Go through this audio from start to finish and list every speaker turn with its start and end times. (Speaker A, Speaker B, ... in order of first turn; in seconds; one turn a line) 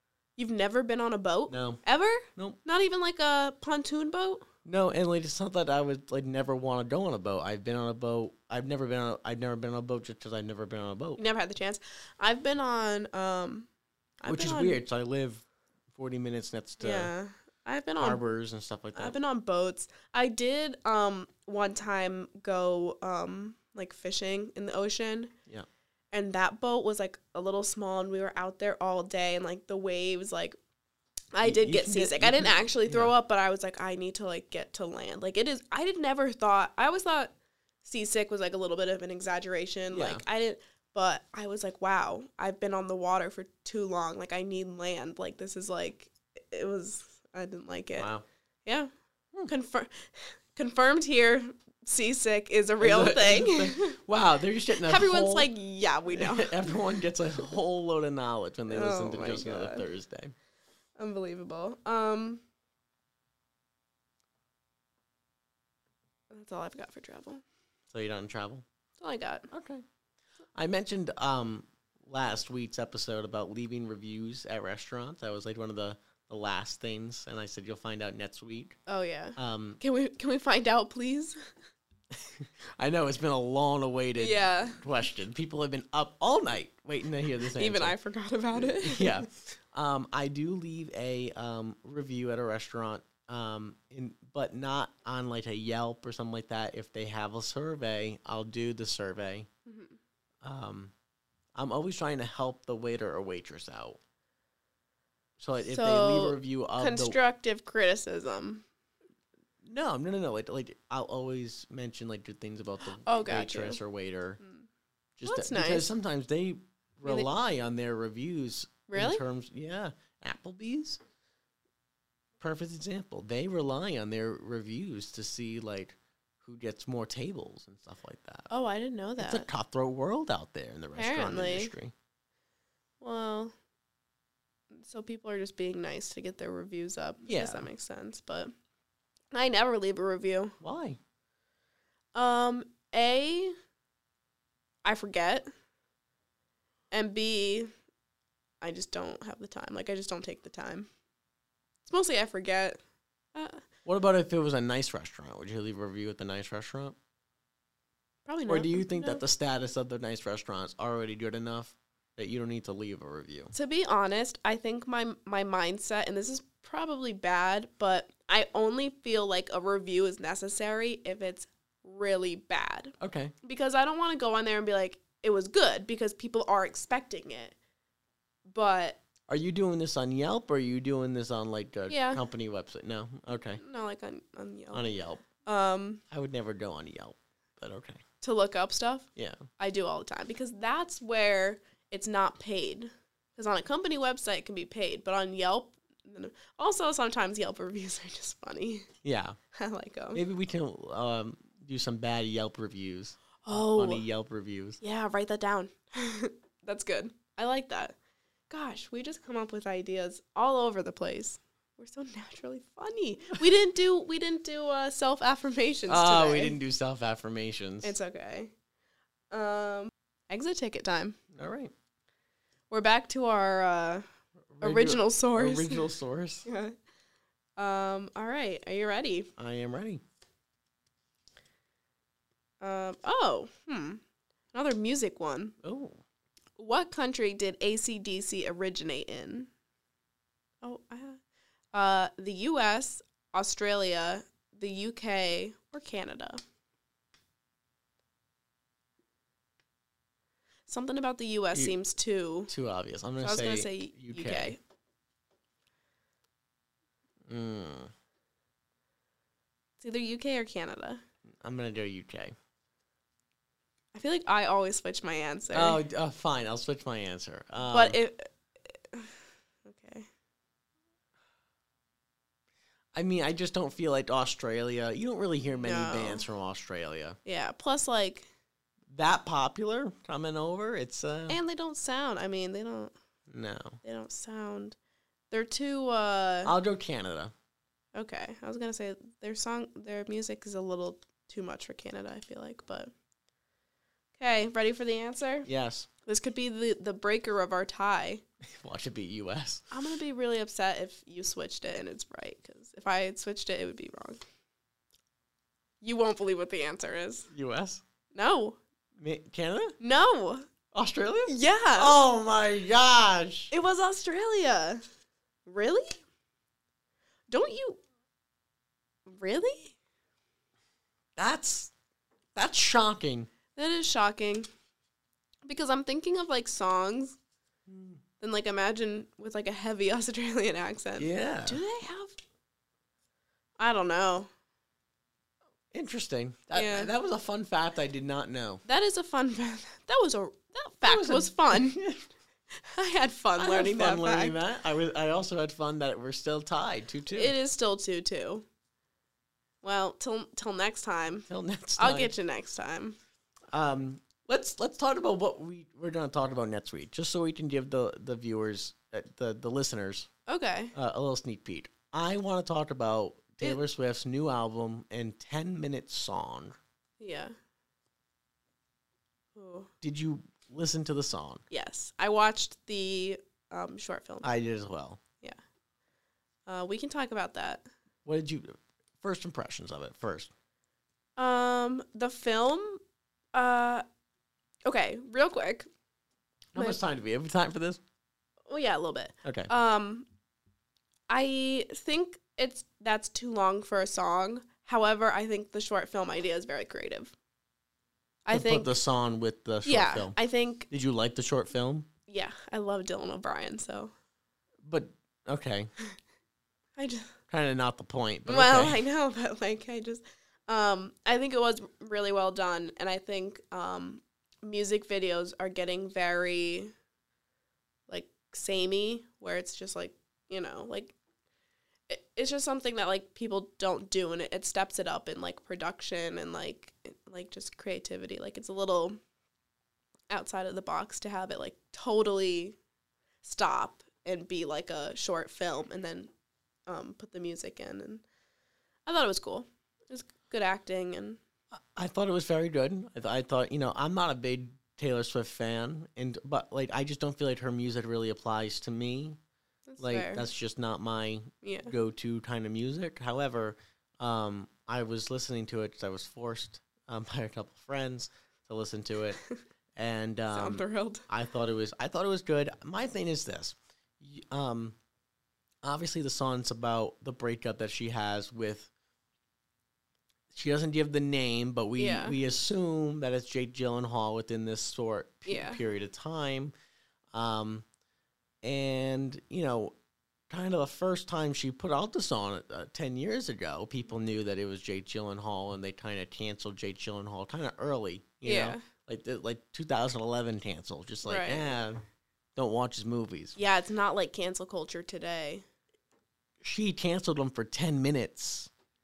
Speaker A: 0.4-4.5
Speaker B: 1.5-1.8
Speaker B: 4.7-11.2
Speaker A: 11.2-13.7
Speaker A: 14.2-14.8
Speaker B: 14.2-17.1
Speaker A: 16.8-18.2
Speaker B: 18.0-19.2
Speaker A: 18.9-25.3
Speaker A: 26.1-30.6
Speaker A: 31.3-37.3
Speaker B: 31.4-33.1
Speaker A: 37.8-48.1
Speaker B: 39.9-40.2
Speaker B: 48.0-48.2
Speaker A: 48.6-48.9
Speaker A: 49.5-54.0
Speaker B: 52.8-55.5
Speaker A: 54.8-56.8
Speaker B: 56.1-60.4
Speaker A: 58.7-59.9
Speaker A: 61.0-62.4
Speaker A: 66.3-67.4
Speaker B: 67.9-68.7
Speaker A: 69.0-69.5
Speaker B: 69.5-69.8
Speaker B: 70.5-78.8
Speaker A: 78.9-81.4
Speaker B: 79.4-79.8
Speaker B: 82.1-88.0
Speaker A: 84.2-84.8
Speaker A: 87.5-89.2
Speaker B: 88.5-99.5
Speaker A: 99.7-100.0
Speaker B: 100.4-100.9
Speaker B: 101.6-104.0
Speaker B: 105.4-107.2
Speaker A: 105.6-108.7
Speaker B: 109.6-114.4
Speaker A: 113.0-113.8
Speaker B: 115.2-121.0
Speaker A: 115.2-115.9
Speaker A: 118.9-119.2
Speaker B: 122.4-128.5
Speaker A: 128.5-129.5
Speaker B: 129.2-131.9
Speaker A: 131.0-131.7
Speaker A: 133.0-133.5
Speaker A: 134.7-138.5
Speaker B: 137.3-137.7
Speaker A: 139.3-140.6
Speaker B: 140.6-141.0
Speaker A: 142.2-143.6
Speaker A: 144.8-145.5
Speaker A: 146.9-147.7
Speaker A: 148.6-150.9
Speaker A: 151.8-152.8
Speaker A: 153.3-153.6
Speaker B: 153.8-157.0
Speaker A: 158.3-159.2
Speaker B: 158.5-163.5
Speaker A: 163.5-177.6
Speaker B: 173.0-173.3
Speaker A: 178.5-179.0
Speaker B: 179.3-183.6
Speaker A: 181.9-182.2
Speaker A: 183.6-184.8
Speaker B: 184.7-185.2
Speaker A: 185.4-186.0
Speaker B: 186.1-188.0
Speaker A: 188.2-189.1
Speaker B: 189.2-189.4
Speaker A: 189.6-198.9
Speaker B: 199.0-199.4
Speaker A: 199.5-200.2
Speaker B: 200.1-204.8
Speaker A: 203.4-204.0
Speaker A: 204.8-207.9
Speaker A: 208.5-216.6
Speaker B: 215.9-218.0
Speaker A: 217.8-218.5
Speaker A: 219.3-221.2
Speaker B: 221.3-221.7
Speaker A: 222.7-224.1
Speaker B: 224.5-226.5
Speaker A: 224.6-225.9
Speaker A: 226.4-226.8
Speaker A: 227.6-229.3
Speaker B: 229.4-230.0
Speaker A: 232.6-234.0
Speaker A: 234.5-235.6
Speaker B: 235.6-236.0
Speaker A: 236.6-239.5
Speaker A: 240.6-241.2
Speaker A: 241.7-246.4
Speaker A: 250.7-252.5
Speaker B: 252.5-254.6
Speaker A: 253.2-254.6
Speaker B: 257.3-257.9
Speaker A: 259.8-261.0
Speaker B: 261.4-262.4
Speaker A: 263.9-265.8
Speaker B: 265.5-268.0
Speaker A: 267.7-268.3
Speaker A: 268.9-270.1
Speaker B: 272.9-277.2
Speaker A: 275.6-276.2
Speaker A: 277.2-278.3
Speaker B: 278.9-281.4
Speaker A: 281.3-282.9
Speaker B: 283.3-283.8
Speaker A: 283.8-284.8
Speaker A: 285.3-286.6
Speaker B: 286.5-287.3
Speaker A: 287.9-292.9
Speaker A: 294.2-295.5
Speaker B: 295.5-295.9
Speaker A: 296.1-298.2
Speaker B: 298.4-299.7
Speaker A: 299.7-304.2
Speaker A: 305.8-307.3
Speaker B: 307.3-307.8
Speaker A: 308.1-308.6
Speaker B: 309.0-309.8
Speaker A: 309.8-310.5
Speaker B: 310.7-313.5
Speaker A: 311.3-312.0
Speaker A: 313.5-314.8
Speaker A: 315.5-316.0
Speaker A: 317.3-317.8
Speaker A: 319.1-319.8
Speaker B: 321.2-321.7
Speaker B: 322.4-323.3
Speaker A: 323.6-324.5
Speaker A: 325.4-327.2
Speaker B: 327.7-328.0
Speaker A: 328.2-332.2
Speaker B: 331.0-331.6
Speaker A: 333.6-334.3
Speaker B: 335.7-338.6
Speaker A: 336.5-336.9
Speaker A: 338.7-341.8
Speaker B: 340.8-342.1
Speaker A: 342.6-344.4
Speaker B: 343.4-347.3
Speaker A: 347.1-348.4
Speaker A: 349.6-351.3
Speaker B: 351.3-352.1
Speaker A: 351.8-353.0
Speaker B: 353.5-360.1
Speaker A: 360.3-360.7
Speaker B: 360.8-366.6
Speaker A: 367.0-367.3
Speaker A: 369.4-369.7
Speaker B: 369.8-371.4
Speaker A: 371.5-374.3
Speaker B: 374.2-375.0
Speaker A: 376.5-377.7
Speaker B: 378.1-380.3
Speaker A: 381.2-382.8
Speaker A: 383.3-383.8
Speaker A: 384.6-385.7
Speaker B: 386.6-387.8
Speaker A: 388.5-390.1
Speaker B: 389.2-389.5
Speaker A: 391.1-397.1
Speaker A: 398.2-398.7
Speaker B: 398.3-400.2
Speaker A: 399.6-400.7
Speaker B: 400.7-401.9
Speaker A: 402.1-403.9
Speaker B: 404.6-405.7
Speaker A: 406.8-407.1
Speaker B: 407.3-408.8
Speaker A: 408.3-416.7
Speaker A: 417.9-420.9
Speaker A: 421.9-429.0
Speaker A: 430.1-432.6
Speaker A: 433.2-436.1
Speaker A: 436.7-438.0
Speaker A: 438.9-441.2
Speaker B: 441.5-449.2
Speaker A: 449.7-450.3
Speaker B: 449.8-459.2
Speaker A: 451.4-451.7
Speaker B: 459.8-464.8
Speaker A: 460.3-461.1
Speaker B: 465.6-468.7
Speaker B: 470.3-476.5
Speaker A: 471.8-472.2
Speaker A: 475.3-475.6
Speaker B: 477.1-477.6
Speaker B: 478.4-479.8
Speaker B: 480.3-491.8
Speaker A: 488.2-488.6
Speaker A: 491.0-491.6
Speaker B: 492.4-493.4
Speaker A: 493.4-495.4
Speaker B: 496.4-498.5